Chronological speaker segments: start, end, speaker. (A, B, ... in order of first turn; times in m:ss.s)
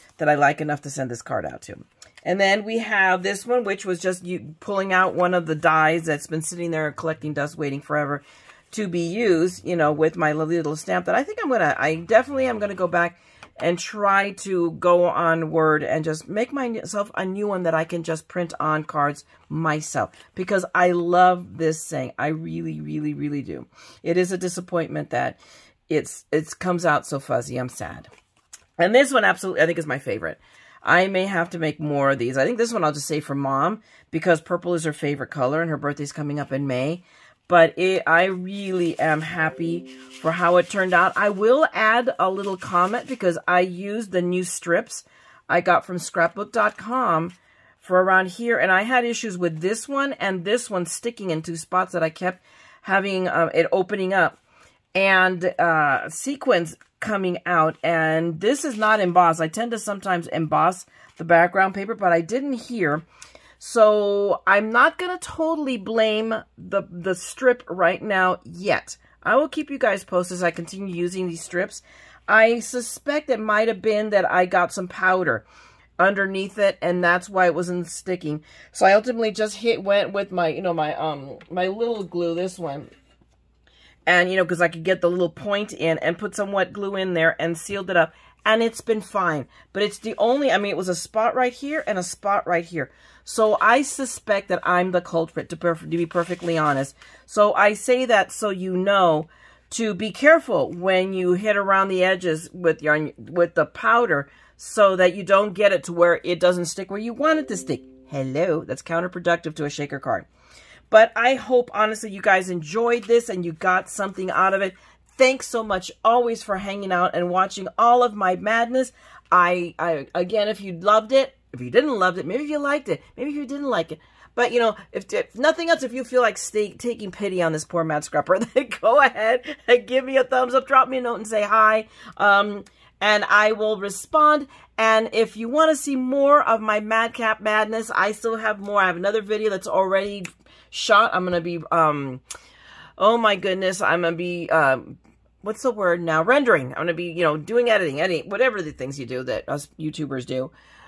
0:00.2-0:25.4 A
0:25.9-0:28.1 A
0:28.8-0:54.4 A
0:54.9-1:03.0 A
1:03.6-1:15.4 A
1:16.0-1:22.9 A
1:24.0-1:50.3 A
1:50.9-2:22.2 A
2:23.0-2:30.5 A